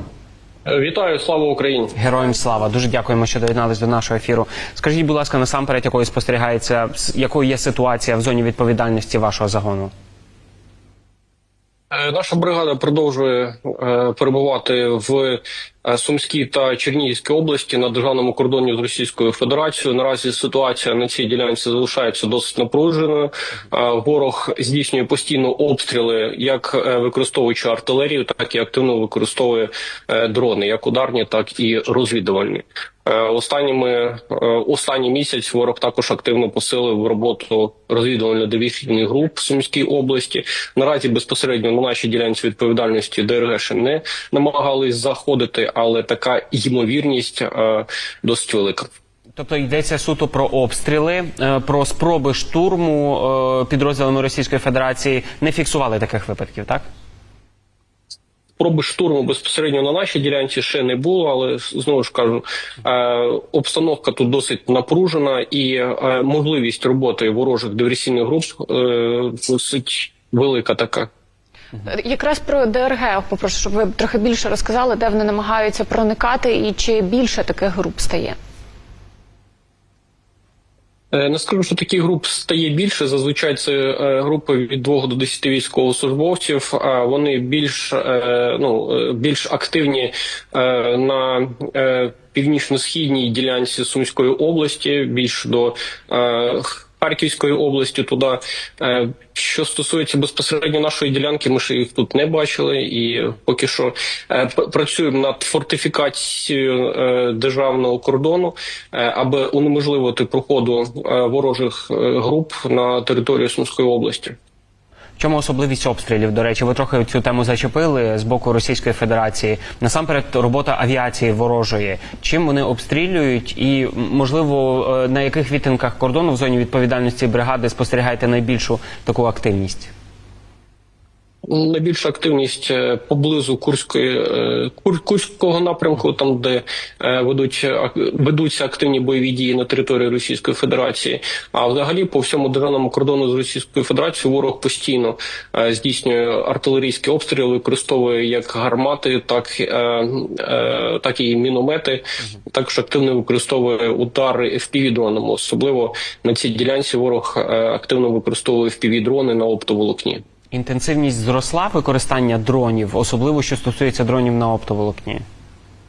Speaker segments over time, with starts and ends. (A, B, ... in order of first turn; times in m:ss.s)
0:00.7-0:02.0 A
0:02.0-0:09.9 B
0:11.9-0:48.9 A
0:49.4-0:56.9 B
0:58.6-1:11.1 A
1:11.8-1:18.4 C
1:21.1-1:54.4 A
1:55.2-2:09.9 B
2:11.5-2:40.2 A
2:40.5-2:45.2 B